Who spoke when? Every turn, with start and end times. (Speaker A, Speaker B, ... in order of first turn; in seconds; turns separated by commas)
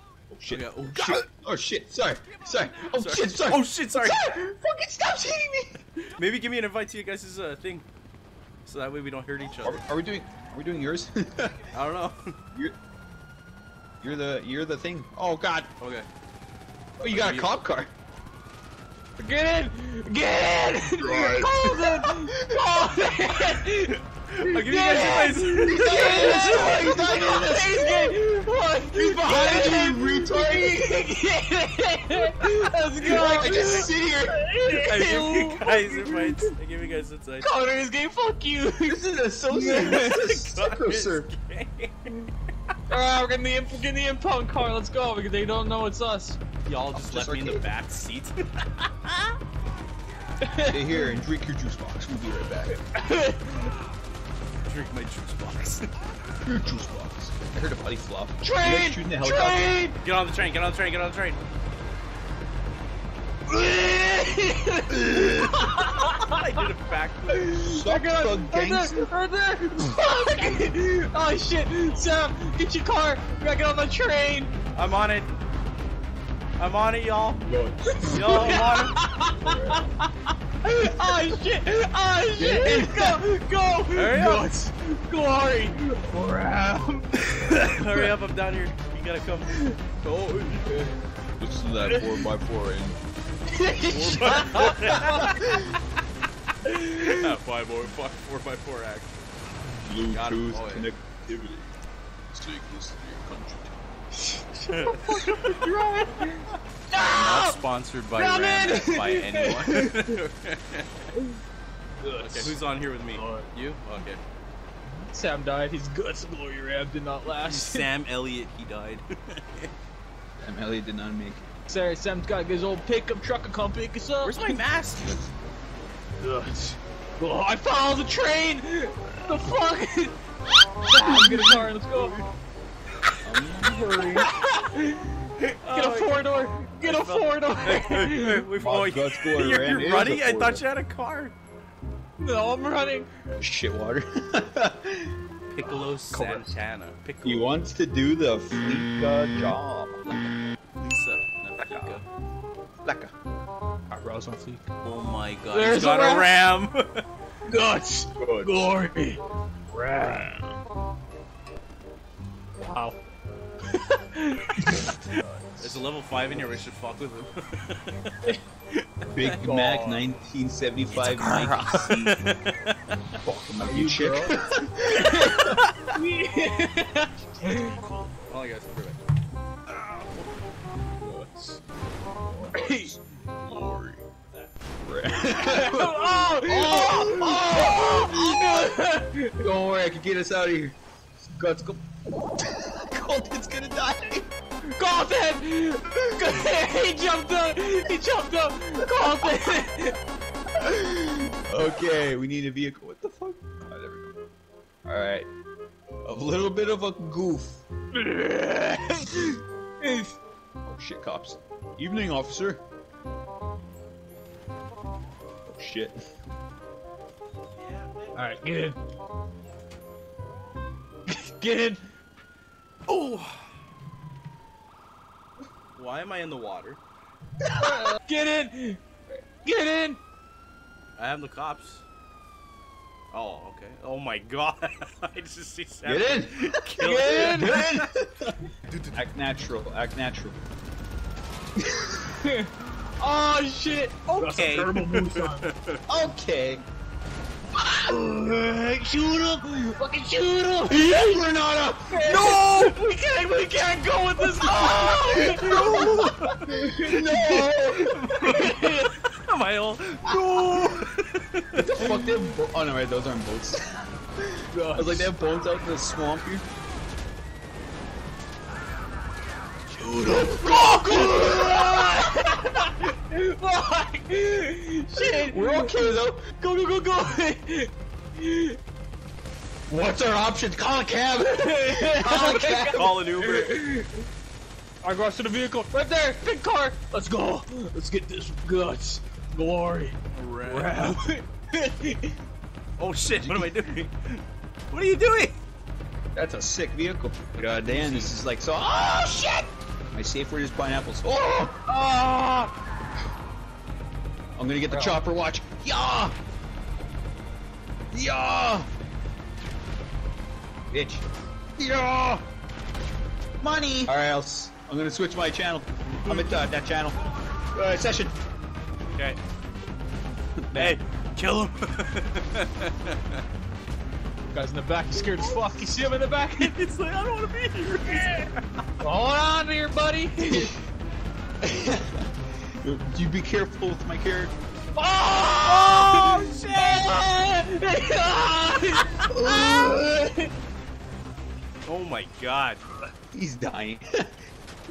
Speaker A: 0.3-5.8, Speaker B: 0.5-1.3, Speaker B: 2.9-4.3, Speaker B: 6.0-7.8, Speaker B: 8.6-9.8, Speaker A: 9.6-11.7, Speaker B: 11.7-12.3, Speaker A: 14.0-15.7, Speaker B: 15.8-16.1, Speaker A: 17.0-17.9, Speaker B: 17.1-17.5, Speaker C: 19.2-36.5, Speaker A: 21.0-22.6, Speaker B: 24.3-26.9, Speaker A: 25.6-28.2, Speaker A: 28.9-31.1, Speaker A: 33.0-34.4, Speaker B: 33.5-33.9, Speaker B: 34.7-37.6, Speaker C: 37.4-40.4, Speaker A: 38.9-41.3, Speaker B: 40.5-42.1, Speaker C: 42.9-46.4, Speaker B: 46.6-49.4, Speaker A: 46.9-47.6, Speaker C: 50.4-51.1, Speaker A: 50.6-52.8, Speaker C: 52.8-53.7, Speaker B: 54.6-55.9, Speaker A: 56.4-59.7, Speaker C: 58.4-60.0, Speaker B: 60.0-61.4, Speaker C: 63.5-66.4, Speaker B: 65.1-67.6, Speaker C: 67.3-74.5, Speaker A: 67.6-69.1, Speaker B: 74.7-75.4, Speaker B: 76.6-77.4, Speaker A: 77.5-79.8, Speaker C: 77.9-79.8, Speaker B: 78.1-79.0, Speaker C: 80.6-88.1, Speaker A: 82.3-83.2, Speaker B: 83.9-84.5, Speaker B: 87.4-90.7, Speaker A: 91.4-93.0, Speaker C: 91.9-92.2, Speaker C: 93.5-95.6, Speaker B: 93.9-95.3, Speaker A: 94.6-95.6, Speaker C: 96.7-97.3, Speaker B: 97.1-99.1, Speaker A: 99.8-101.7, Speaker B: 100.1-100.9, Speaker A: 102.3-103.8, Speaker C: 104.1-107.6, Speaker B: 104.7-105.7, Speaker B: 106.9-111.1, Speaker C: 108.1-110.1, Speaker C: 112.0-112.5, Speaker B: 112.2-114.2, Speaker C: 113.1-113.5, Speaker C: 115.0-117.9, Speaker B: 117.4-119.7, Speaker A: 120.4-121.5, Speaker C: 121.7-124.6, Speaker B: 124.2-125.2, Speaker C: 126.2-130.1, Speaker C: 130.8-132.1, Speaker A: 131.0-132.2, Speaker A: 133.2-134.3, Speaker C: 134.2-138.4, Speaker B: 135.6-141.3, Speaker A: 138.6-140.6, Speaker C: 142.2-143.1, Speaker A: 143.4-145.1, Speaker B: 145.5-147.5, Speaker C: 145.6-146.5, Speaker A: 147.2-150.0, Speaker B: 150.0-152.0, Speaker A: 151.6-152.0, Speaker A: 152.8-153.1, Speaker C: 153.9-154.7, Speaker B: 154.8-157.0, Speaker C: 155.5-156.3, Speaker C: 157.5-159.2, Speaker A: 158.2-158.7, Speaker C: 159.7-160.5, Speaker C: 162.6-163.0, Speaker C: 163.7-164.9, Speaker A: 164.6-165.8, Speaker B: 165.1-170.1, Speaker A: 169.1-172.2, Speaker B: 170.9-172.7, Speaker A: 173.2-175.6, Speaker C: 173.6-174.3, Speaker C: 174.9-177.7, Speaker B: 177.4-179.0, Speaker C: 181.0-181.6, Speaker A: 182.1-184.0, Speaker C: 182.5-182.9, Speaker A: 184.8-188.8, Speaker C: 185.4-189.4, Speaker A: 189.4-190.8, Speaker A: 191.3-191.8, Speaker A: 192.4-194.3, Speaker C: 194.8-199.9, Speaker A: 200.6-204.2, Speaker A: 204.8-205.3, Speaker A: 206.0-207.6, Speaker C: 207.9-210.1, Speaker A: 210.6-212.6, Speaker A: 215.5-216.0, Speaker B: 217.6-218.4, Speaker C: 218.1-218.8, Speaker C: 221.1-221.8, Speaker B: 222.9-223.5, Speaker B: 225.8-226.8, Speaker A: 227.4-227.9, Speaker C: 227.6-228.8, Speaker C: 229.4-230.0, Speaker B: 231.0-231.8, Speaker B: 233.1-237.9, Speaker A: 235.8-238.3, Speaker C: 236.8-237.5, Speaker B: 238.7-239.0, Speaker A: 238.9-240.4, Speaker A: 241.6-242.1, Speaker C: 242.2-245.5, Speaker B: 244.1-245.8, Speaker A: 245.9-246.6, Speaker C: 247.6-251.3, Speaker A: 250.7-252.3, Speaker C: 251.9-257.5, Speaker B: 252.1-252.8, Speaker A: 254.4-257.9, Speaker B: 255.4-256.5, Speaker B: 257.3-261.7, Speaker C: 258.1-258.9, Speaker A: 260.1-260.7, Speaker A: 261.6-266.4, Speaker C: 264.5-265.1, Speaker C: 269.8-278.6, Speaker A: 270.1-272.0, Speaker A: 274.9-276.2, Speaker A: 279.7-283.0, Speaker C: 281.4-284.1, Speaker B: 282.7-283.6, Speaker C: 284.8-292.1, Speaker B: 290.1-290.9, Speaker B: 292.8-295.4, Speaker A: 293.2-293.5, Speaker A: 296.1-301.6, Speaker B: 297.7-298.1, Speaker C: 301.7-302.5, Speaker A: 304.4-306.1, Speaker C: 304.7-305.0, Speaker A: 307.9-308.7, Speaker A: 310.7-311.0, Speaker A: 311.6-312.2, Speaker A: 313.4-318.1, Speaker B: 316.0-316.5, Speaker A: 320.4-320.8, Speaker B: 320.5-323.2, Speaker C: 324.3-326.5, Speaker B: 325.0-325.5, Speaker B: 326.4-328.8, Speaker C: 327.9-328.3, Speaker C: 328.8-330.5, Speaker A: 330.2-330.5, Speaker A: 331.4-334.3, Speaker C: 334.8-340.3, Speaker B: 335.4-337.0, Speaker A: 339.1-339.9, Speaker B: 341.6-342.6, Speaker A: 343.1-344.1